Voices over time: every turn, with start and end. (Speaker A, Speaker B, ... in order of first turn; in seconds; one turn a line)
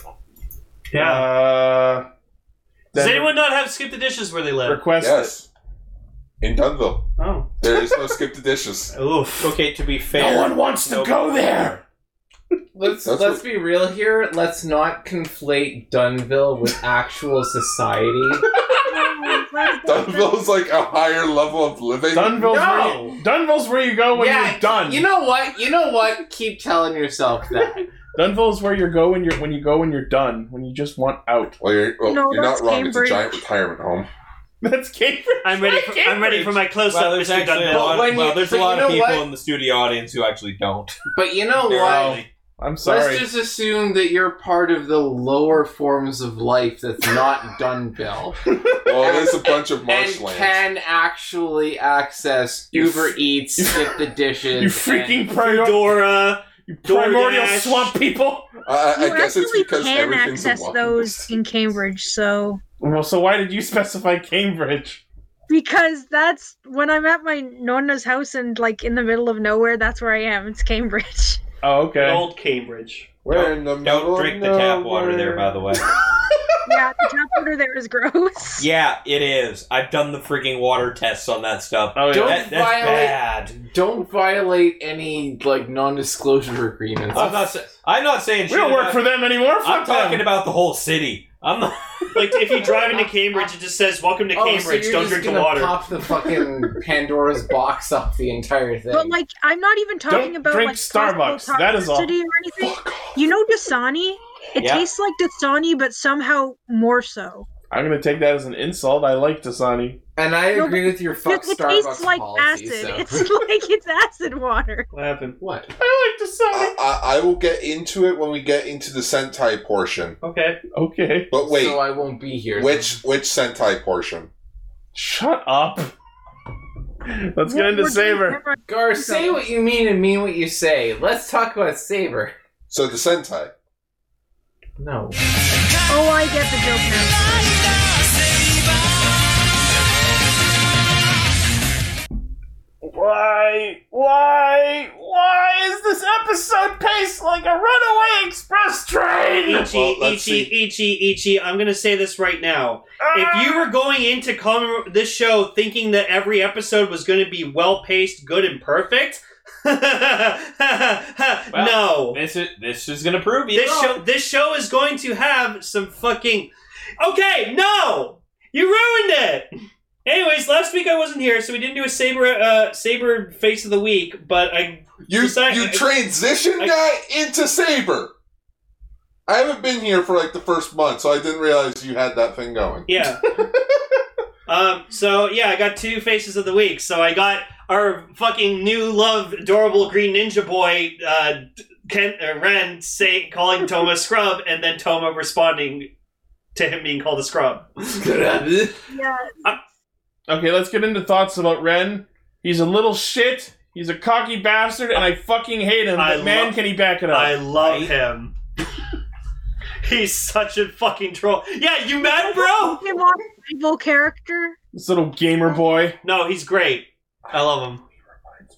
Speaker A: 0.9-1.2
Speaker B: 0.9-2.0
Speaker B: 2.9-3.3
Speaker A: 2.9-4.8
Speaker B: 4.6-5.3
Speaker C: 5.0-5.5
Speaker C: 6.4-7.0
Speaker A: 7.2-7.5
Speaker C: 7.6-8.9
Speaker A: 8.9-9.6
Speaker D: 9.4-11.8
Speaker B: 10.1-11.8
Speaker E: 12.7-18.4
Speaker C: 13.0-13.4
Speaker F: 18.9-20.4
Speaker C: 19.8-22.9
Speaker B: 22.1-25.1
Speaker E: 22.5-23.2
Speaker A: 22.6-23.0
Speaker E: 24.1-27.9
Speaker B: 28.1-31.6
Speaker C: 31.6-34.1
Speaker F: 32.0-33.4
Speaker B: 34.6-36.6
Speaker A: 35.4-38.0
Speaker D: 36.9-40.9
Speaker E: 37.7-39.3
Speaker E: 41.1-42.2
Speaker D: 41.6-42.2
Speaker B: 41.8-43.2
Speaker E: 42.8-48.4
Speaker B: 48.5-48.9
Speaker C: 48.8-50.6
Speaker E: 49.0-55.2
Speaker B: 53.5-54.0
Speaker B: 54.5-56.0
Speaker A: 55.3-57.9
Speaker B: 56.6-58.5
Speaker C: 58.6-61.3
Speaker F: 58.9-62.6
Speaker B: 62.8-65.0
Speaker F: 65.5-71.4
Speaker B: 71.6-72.2
Speaker A: 72.0-73.2
Speaker C: 73.2-75.8
Speaker D: 73.3-75.9
Speaker F: 76.6-78.7
Speaker D: 78.6-83.5
Speaker B: 81.9-82.5
Speaker E: 82.1-87.5
Speaker D: 87.1-89.0
Speaker B: 88.5-90.3
Speaker D: 89.6-92.4
Speaker A: 92.1-95.8
Speaker E: 92.9-93.5
Speaker E: 94.3-99.2
Speaker F: 98.9-107.5
Speaker B: 100.1-102.1
Speaker C: 102.6-103.2
Speaker D: 104.6-104.8
Speaker B: 107.7-110.0
Speaker E: 110.2-113.4
Speaker F: 110.5-114.9
Speaker A: 114.9-115.4
Speaker E: 115.4-115.7
Speaker B: 115.8-116.8
Speaker C: 116.5-120.2
Speaker A: 120.2-120.6
Speaker B: 120.7-121.3
Speaker C: 121.3-121.8
Speaker E: 121.4-123.0
Speaker C: 122.5-124.3
Speaker B: 124.9-125.9
Speaker B: 127.1-128.4
Speaker F: 127.4-129.4
Speaker E: 128.7-132.3
Speaker C: 132.7-133.5
Speaker E: 134.8-135.2
Speaker F: 135.9-138.1
Speaker B: 142.8-149.7
Speaker A: 149.4-162.2
Speaker C: 149.6-150.5
Speaker B: 153.0-153.7
Speaker D: 161.5-164.0
Speaker A: 163.5-169.5
Speaker A: 170.1-175.9
Speaker C: 175.0-178.1
Speaker C: 179.3-183.1
Speaker A: 182.9-183.2
Speaker A: 184.5-195.9
Speaker A: 196.5-197.8
Speaker E: 197.9-198.8
Speaker F: 198.9-199.6
Speaker B: 200.3-207.4
Speaker A: 206.0-208.3
Speaker D: 207.5-207.9
Speaker A: 209.8-212.8
Speaker F: 212.0-214.6
Speaker B: 214.7-216.0
Speaker A: 216.0-217.8